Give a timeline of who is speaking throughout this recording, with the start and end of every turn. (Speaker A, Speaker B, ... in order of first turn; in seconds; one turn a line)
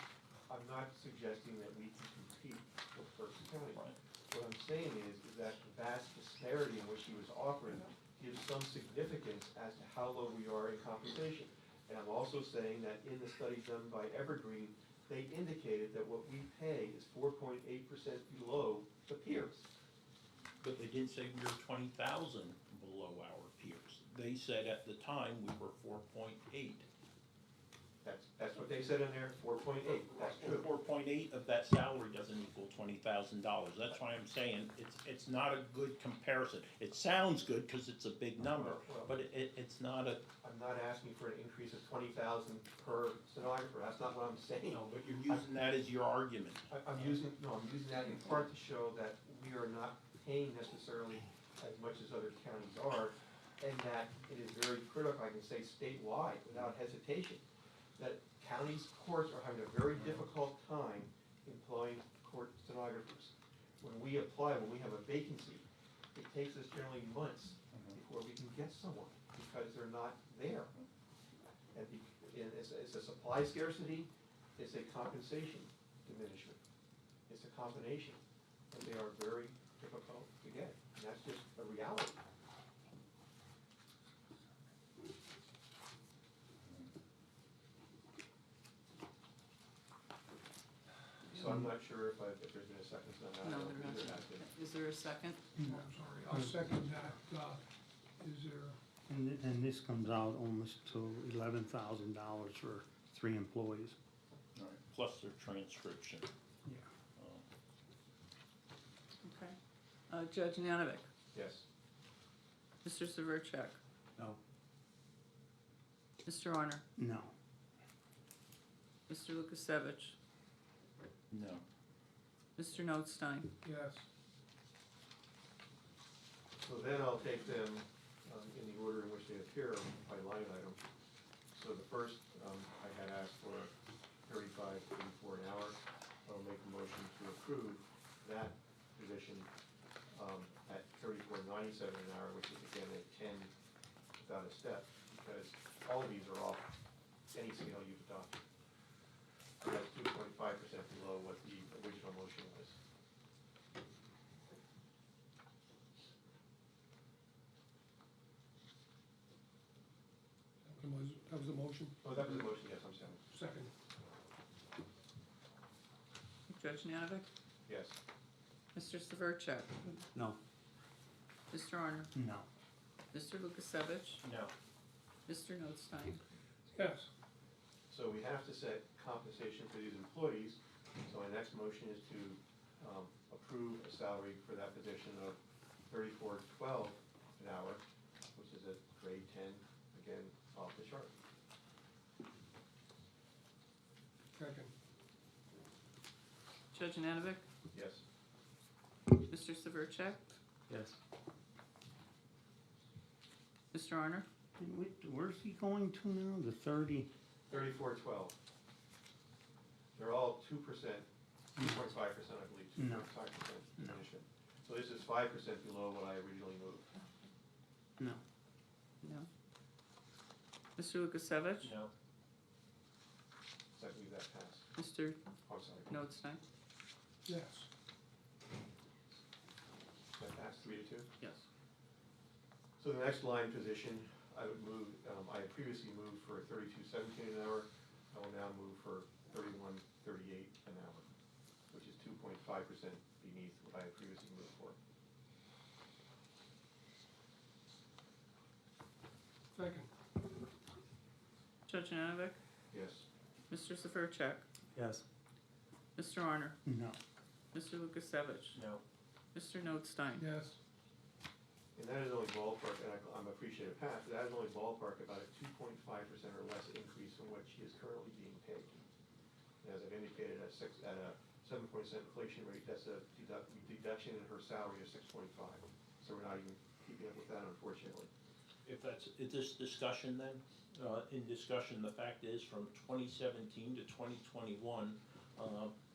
Speaker A: 0.5-19.6
Speaker B: 20.6-26.9
Speaker A: 28.0-30.7
Speaker B: 30.2-40.2
Speaker A: 38.5-39.1
Speaker A: 40.4-45.5
Speaker B: 44.7-47.2
Speaker A: 46.7-57.4
Speaker A: 58.0-70.7
Speaker B: 60.0-60.2
Speaker B: 67.7-68.0
Speaker A: 71.7-76.6
Speaker A: 77.3-82.2
Speaker A: 91.3-94.5
Speaker C: 93.4-95.5
Speaker D: 95.6-97.6
Speaker E: 96.3-96.6
Speaker D: 98.2-98.8
Speaker E: 99.1-104.0
Speaker B: 104.5-106.3
Speaker B: 107.2-107.4
Speaker C: 109.2-109.6
Speaker C: 110.1-111.1
Speaker A: 111.3-111.7
Speaker C: 112.8-113.8
Speaker C: 116.2-116.8
Speaker E: 117.0-117.3
Speaker C: 119.1-120.2
Speaker B: 121.3-121.6
Speaker C: 122.6-123.5
Speaker D: 123.6-124.1
Speaker A: 126.6-130.8
Speaker A: 131.5-133.7
Speaker A: 134.3-139.5
Speaker A: 140.1-143.5
Speaker A: 144.2-146.7
Speaker A: 147.3-148.4
Speaker A: 149.6-152.8
Speaker D: 160.7-162.1
Speaker A: 162.0-163.2
Speaker D: 163.3-163.7
Speaker C: 166.5-167.3
Speaker A: 167.7-168.0
Speaker C: 168.7-170.0
Speaker C: 171.5-172.1
Speaker E: 172.1-172.5
Speaker C: 173.1-174.2
Speaker B: 174.2-174.5
Speaker C: 175.3-176.2
Speaker D: 176.7-177.1
Speaker A: 177.9-187.8
Speaker A: 188.3-191.1
Speaker D: 194.3-194.7
Speaker C: 196.7-197.5
Speaker A: 197.7-198.0
Speaker C: 199.2-200.3
Speaker C: 203.7-204.3
Speaker E: 204.6-207.1
Speaker A: 207.5-208.3
Speaker A: 210.0-216.9
Speaker E: 211.6-211.8
Speaker E: 212.8-213.1
Speaker C: 219.0-219.3
Speaker C: 220.8-221.7
Speaker B: 221.6-221.9
Speaker A: 223.7-224.7
Speaker C: 224.8-225.3
Speaker A: 225.5-225.9
Speaker C: 225.9-226.4
Speaker D: 227.2-227.7
Speaker A: 230.2-231.1
Speaker A: 232.8-241.1
Speaker A: 241.7-244.8
Speaker D: 249.6-249.9
Speaker C: 251.7-252.4
Speaker A: 252.7-253.1
Speaker C: 253.5-254.4
Speaker C: 256.0-256.6
Speaker E: 256.6-257.0
Speaker C: 257.5-258.6
Speaker B: 258.6-258.8
Speaker C: 259.3-260.3
Speaker D: 260.2-260.6
Speaker A: 261.8-268.8
Speaker A: 269.6-278.1
Speaker B: 278.6-285.8